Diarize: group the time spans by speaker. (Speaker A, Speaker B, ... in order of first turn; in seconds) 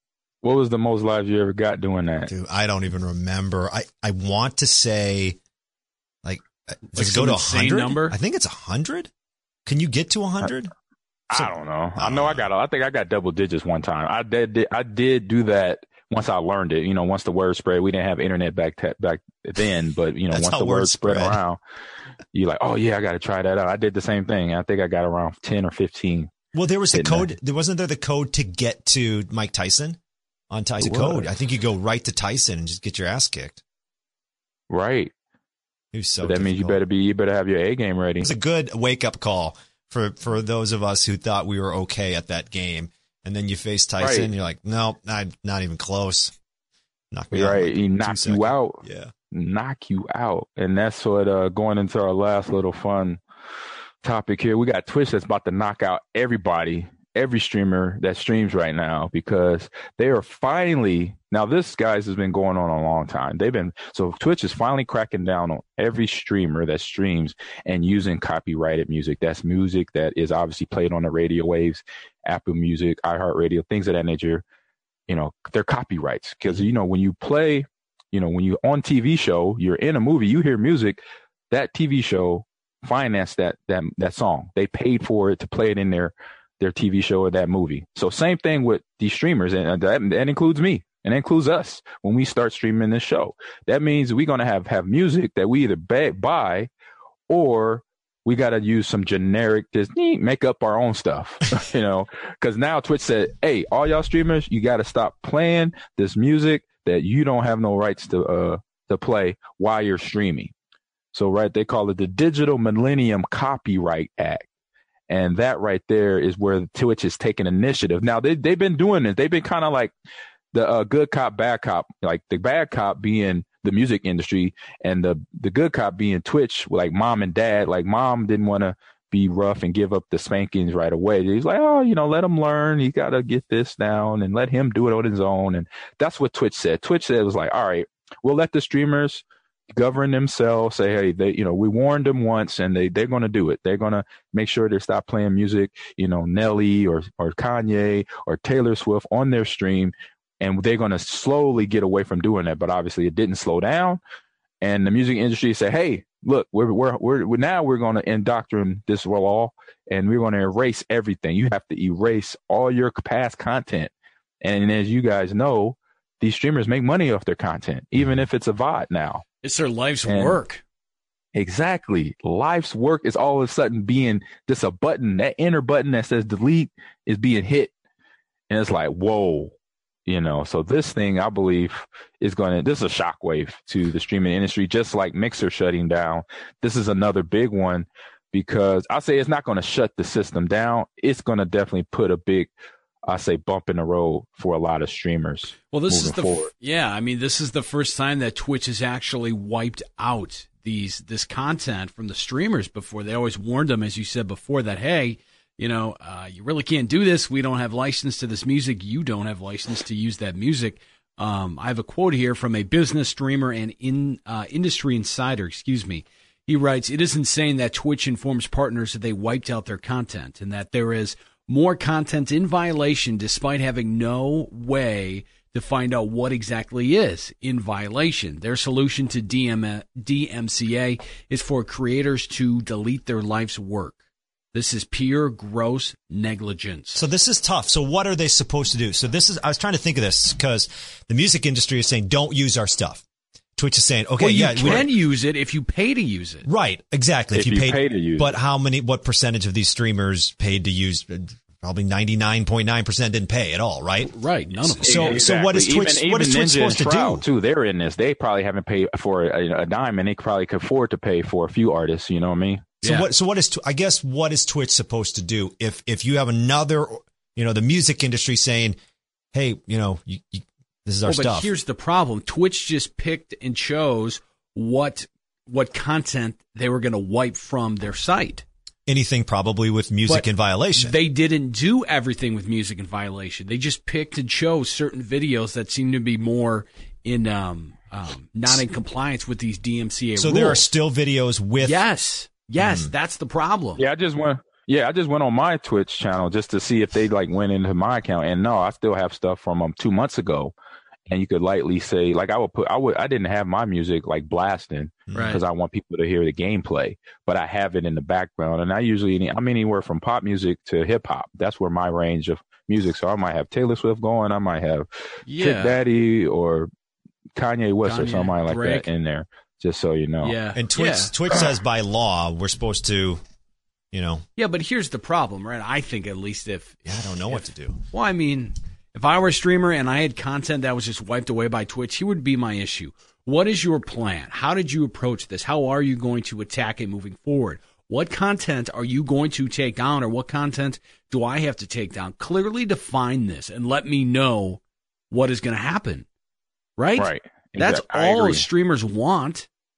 Speaker A: 0.4-2.3, 11.3-21.6, 22.3-26.3, 26.9-27.3, 30.8-31.2, 34.7-35.1, 36.2-38.3, 44.0-44.3, 47.3-48.8, 49.3-53.2, 54.0-74.4, 75.1-96.7, 97.3-110.5, 111.1-114.5, 115.1-119.9, 120.5-154.0, 154.6-169.2, 170.1-170.4, 171.3-177.7, 178.5-179.5, 180.1-192.5, 193.1-196.5, 247.3-248.3, 254.8-262.8, 293.8-300.5, 301.1-314.9, 315.4-316.7, 317.4-320.3, 347.0-348.4
Speaker B: 2.3-5.4, 6.2-9.1, 9.7-10.7, 11.3-12.4, 20.3-21.4, 26.5-30.0, 30.5-33.6, 35.9-36.8, 38.2-46.3, 47.1-49.1, 236.9-243.0, 243.6-244.9, 246.4-257.2, 262.8-268.8, 269.3-271.5, 278.9-280.9, 290.1-291.8, 292.6-292.9, 305.1-305.4, 320.5-323.2, 323.9-324.2, 326.9-327.8
Speaker C: 7.0-8.2, 169.4-170.6, 195.7-234.0, 234.5-237.0, 244.2-246.5, 254.1-255.2, 262.8-263.1, 271.1-278.4, 280.1-290.7, 291.6-293.8, 305.1-305.4, 315.3-315.8, 317.8-318.9, 320.2-321.2, 324.4-344.6, 345.1-346.1, 346.8-349.5